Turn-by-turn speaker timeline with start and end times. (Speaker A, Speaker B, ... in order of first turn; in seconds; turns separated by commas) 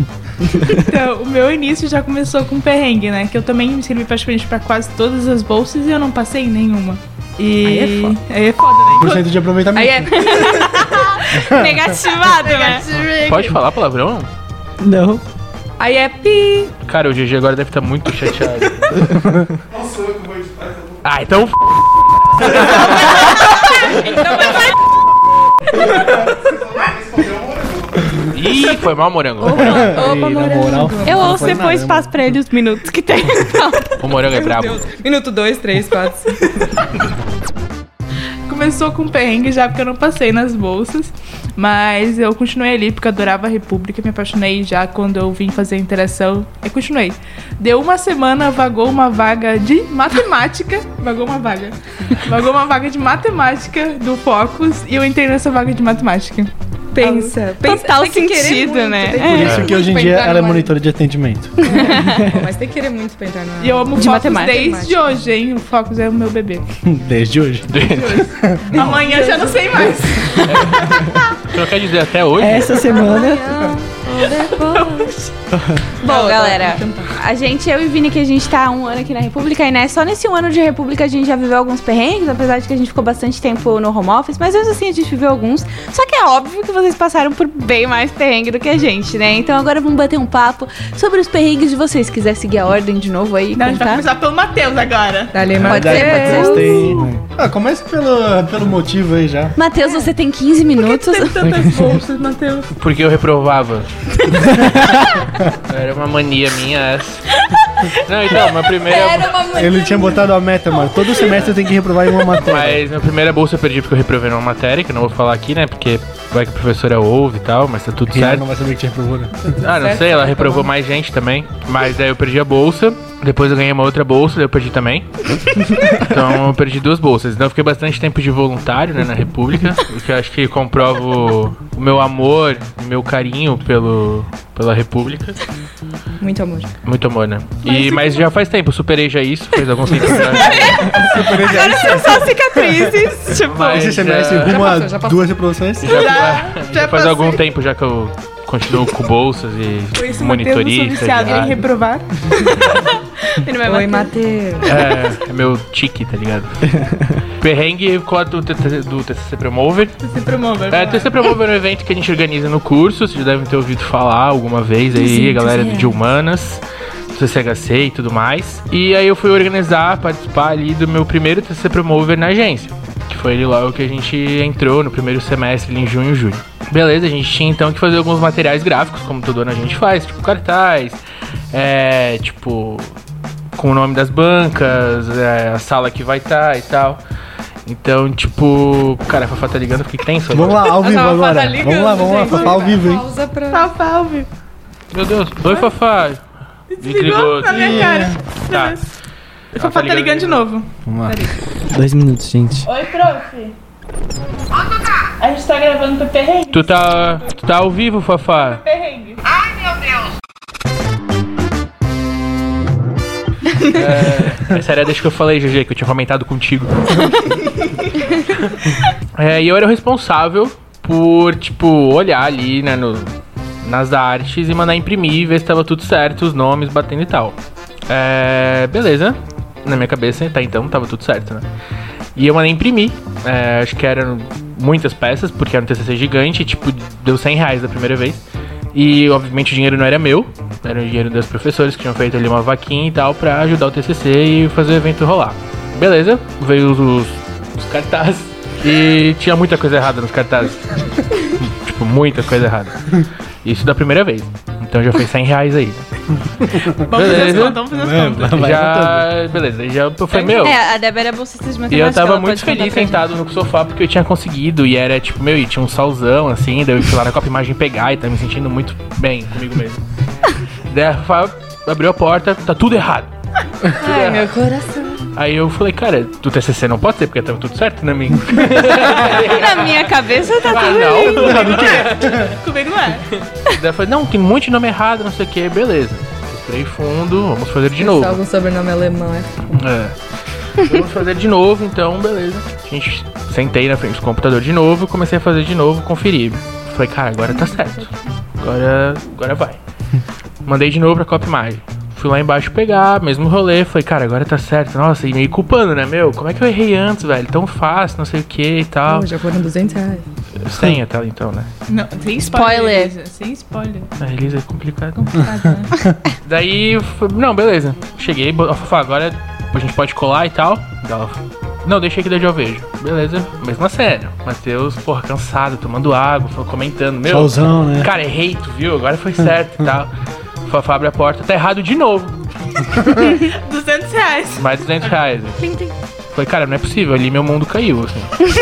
Speaker A: 0.7-9.3, Speaker B: 7.6-8.2, Speaker C: 8.9-10.7, Speaker B: 9.7-10.8, Speaker D: 10.0-13.5, Speaker C: 11.3-11.8, Speaker A: 12.3-12.9, Speaker E: 13.2-14.3, Speaker F: 14.8-15.2, Speaker B: 15.8-16.7, Speaker E: 16.8-19.1, Speaker C: 19.3-20.7, Speaker E: 21.0-21.8, Speaker E: 22.4-22.9, Speaker D: 24.2-24.6, Speaker C: 26.8-28.3, Speaker E: 28.3-29.9, Speaker D: 29.4-30.0, Speaker C: 29.5-32.3, Speaker B: 29.9-31.7, Speaker D: 31.0-34.1, Speaker E: 34.0-34.8, Speaker B: 34.3-36.7, Speaker A: 38.5-57.3, Speaker B: 56.9-60.7, Speaker D: 57.6-59.6, Speaker C: 59.2-61.7, Speaker E: 59.4-59.7, Speaker B: 61.6-65.0, Speaker D: 61.6-62.3, Speaker A: 63.6-66.7, Speaker D: 64.0-64.6, Speaker C: 66.8-68.8, Speaker E: 67.7-68.8, Speaker A: 67.9-70.5, Speaker B: 68.7-69.8, Speaker E: 70.4-72.9, Speaker F: 72.4-73.6, Speaker B: 72.7-75.2, Speaker A: 74.7-75.1, Speaker F: 75.5-75.8, Speaker D: 76.0-94.1, Speaker B: 76.0-77.2, Speaker A: 93.5-95.5, Speaker B: 95.3-97.0, Speaker C: 95.5-99.5, Speaker E: 95.6-96.1, Speaker D: 95.6-97.0, Speaker D: 99.5-101.5, Speaker A: 100.8-102.7, Speaker E: 102.8-104.9, Speaker E: 105.7-107.3, Speaker D: 107.4-107.9, Speaker E: 107.9-109.3, Speaker D: 108.4-110.2, Speaker C: 109.5-112.8, Speaker E: 112.4-118.5, Speaker C: 118.1-119.3, Speaker B: 119.3-120.7, Speaker E: 119.6-135.4, Speaker B: 136.2-136.7, Speaker E: 136.8-141.1, Speaker D: 140.4-143.8, Speaker C: 141.0-142.9, Speaker E: 143.4-144.8, Speaker C: 143.6-146.4, Speaker B: 144.4-145.3, Speaker E: 145.8-151.6, Speaker A: 145.8-147.4, Speaker A: 149.9-152.3, Speaker D: 153.3-154.1, Speaker B: 153.6-154.8, Speaker E: 154.6-160.0, Speaker A: 160.0-161.2, Speaker E: 160.7-181.0, Speaker B: 165.0-165.9, Speaker E: 181.5-182.9, Speaker E: 183.5-187.0, Speaker E: 187.6-190.7, Speaker C: 190.3-193.0, Speaker B: 190.7-193.7, Speaker A: 193.5-194.3, Speaker E: 194.9-196.2, Speaker A: 196.7-198.8, Speaker E: 196.8-198.8, Speaker C: 197.4-198.2, Speaker E: 199.5-200.5, Speaker A: 199.5-201.3, Speaker C: 200.8-201.3, Speaker F: 201.7-202.7, Speaker A: 202.7-203.5, Speaker A: 205.2-206.7, Speaker E: 206.5-208.6, Speaker A: 208.5-209.2, Speaker E: 213.6-217.2, Speaker E: 219.2-223.1, Speaker E: 223.6-227.4, Speaker E: 227.9-231.4, Speaker E: 232.2-255.8, Speaker C: 256.4-259.1, Speaker A: 256.9-258.5, Speaker E: 256.9-257.6, Speaker E: 258.3-260.6, Speaker D: 260.1-263.0, Speaker E: 261.7-269.8, Speaker E: 270.7-273.1, Speaker E: 273.7-274.3, Speaker B: 273.8-275.0, Speaker E: 275.1-282.4, Speaker D: 278.8-281.4, Speaker A: 280.9-283.1, Speaker C: 281.1-282.2, Speaker E: 283.4-288.2, Speaker B: 287.8-289.5, Speaker E: 289.5-289.9, Speaker E: 290.5-299.6, Speaker E: 300.4-309.1, Speaker B: 308.9-310.0, Speaker E: 310.4-311.5, Speaker A: 311.7-313.9, Speaker D: 312.3-312.9, Speaker E: 314.0-315.3, Speaker A: 315.2-315.7, Speaker C: 315.2-316.0, Speaker E: 316.2-329.9, Speaker C: 327.1-327.9, Speaker E: 330.4-332.2, Speaker A: 333.1-334.5, Speaker E: 334.4-335.4, Speaker B: 335.4-335.7, Speaker E: 336.1-338.1